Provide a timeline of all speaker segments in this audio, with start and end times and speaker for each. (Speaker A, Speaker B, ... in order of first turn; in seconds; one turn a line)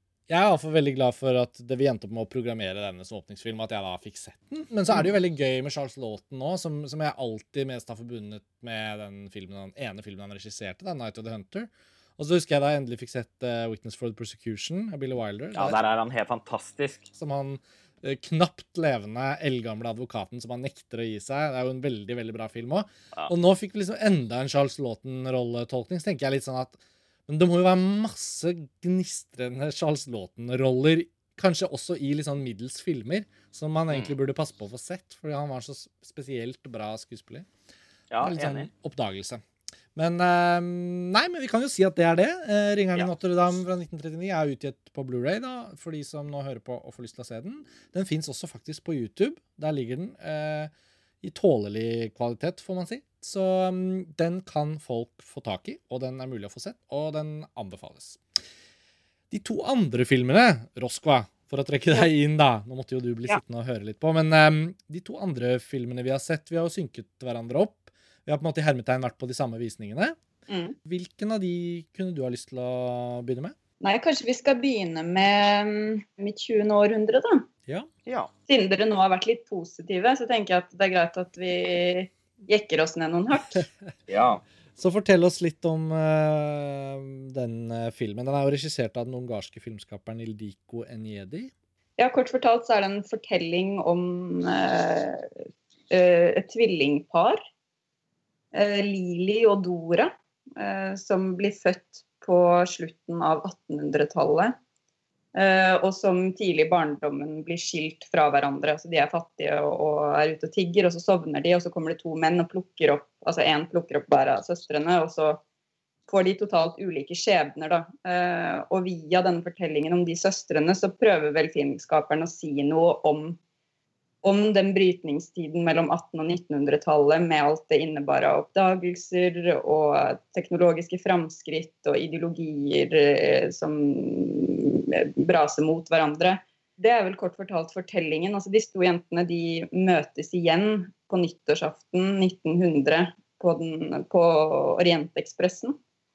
Speaker A: 0.3-15.8
Speaker B: 15.5-17.1
Speaker A: 17.1-37.5
Speaker B: 38.1-38.7
Speaker A: 38.2-39.4
Speaker A: 40.0-50.7
Speaker A: 51.2-58.2
Speaker A: 59.3-70.2
Speaker C: 70.5-70.8
Speaker A: 70.8-73.5
Speaker C: 73.8-77.5
Speaker B: 78.0-78.3
Speaker C: 78.5-83.7
Speaker B: 84.1-84.4
Speaker A: 84.8-91.5
Speaker C: 92.0-95.3
Speaker C: 95.9-97.4
Speaker C: 98.5-104.5
Speaker C: 105.3-115.4
Speaker C: 116.1-123.4
Speaker C: 124.2-145.8